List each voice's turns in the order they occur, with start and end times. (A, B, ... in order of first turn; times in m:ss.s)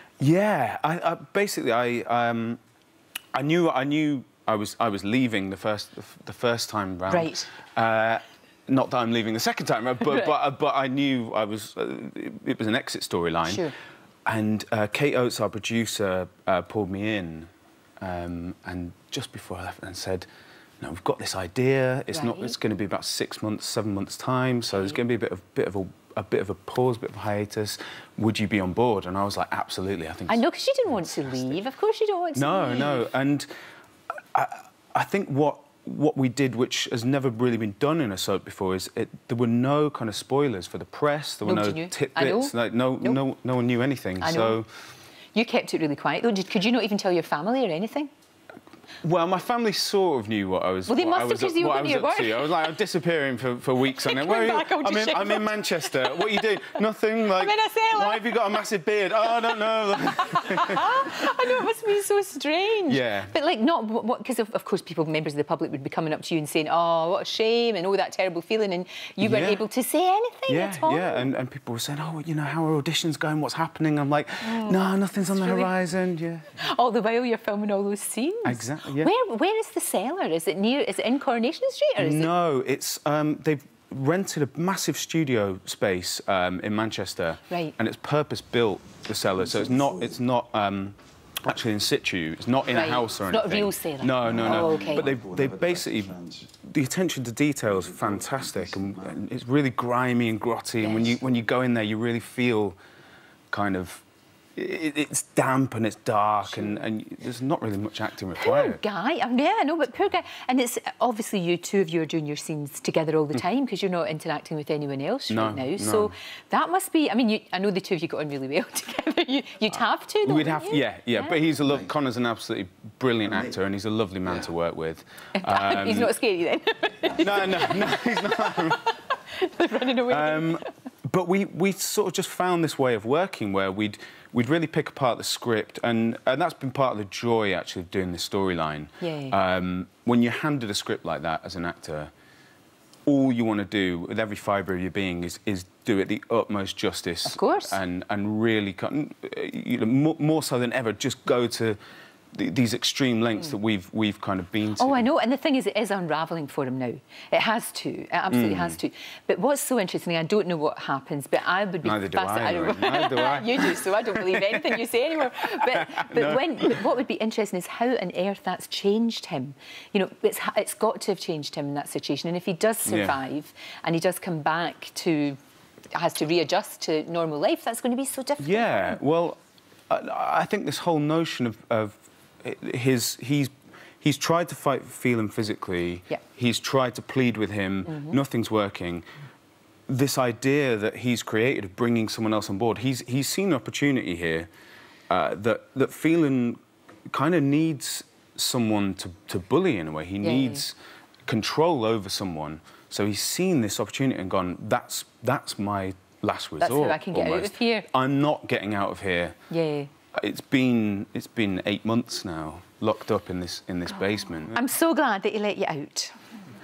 0:00.2-0:02.6 A
0:03.3-0:13.7 A
0:07.1-0:07.5 B
0:13.4-0:13.7 B
0:14.3-0:17.5 A
0:18.0-0:20.3 A
0:20.8-0:30.4 A
0:22.1-0:22.6 B
0:24.7-0:25.0 B
0:30.3-0:33.1 B
0:32.4-0:33.5 A
0:34.3-0:44.7 A
0:41.4-0:43.2 B
0:44.2-0:44.6 B
0:45.3-0:48.1 B
0:49.0-1:01.2 A
0:50.9-0:52.7 B
0:53.9-0:58.6 B
0:59.2-1:11.3 B
1:02.9-1:03.3 A
1:09.2-1:09.6 A
1:10.5-1:16.5 A
1:14.4-1:15.7 B
1:16.6-1:22.3 B
1:18.4-1:19.1 A
1:22.0-1:42.8 A
1:27.5-1:27.7 B
1:32.7-1:35.2 B
1:40.8-1:41.2 B
1:43.5-1:44.0 A
1:44.6-1:48.8 A
1:46.6-1:46.8 B
1:48.4-2:01.4 B
1:55.3-1:56.1 A
2:00.2-2:06.1 A
2:05.4-2:10.7 B
2:07.2-2:08.9 A
2:09.9-2:22.1 A
2:19.0-2:19.4 B
2:23.1-2:31.8 A
2:27.3-2:27.8 B
2:32.3-2:35.1 A
2:34.8-2:55.4 B
2:38.3-2:38.8 A
2:41.8-2:44.8 A
2:45.4-2:46.8 A
2:52.9-2:53.2 A
2:55.9-2:59.0 B
2:58.4-2:59.4 A
2:59.9-3:09.1 A
3:07.9-3:08.2 B
3:09.9-3:14.5 A
3:15.1-3:16.6 A
3:17.1-3:29.4 A
3:20.2-3:20.6 B
3:26.6-3:27.9 B
3:29.5-3:29.9 B
3:30.1-3:34.6 A
3:34.5-3:36.2 B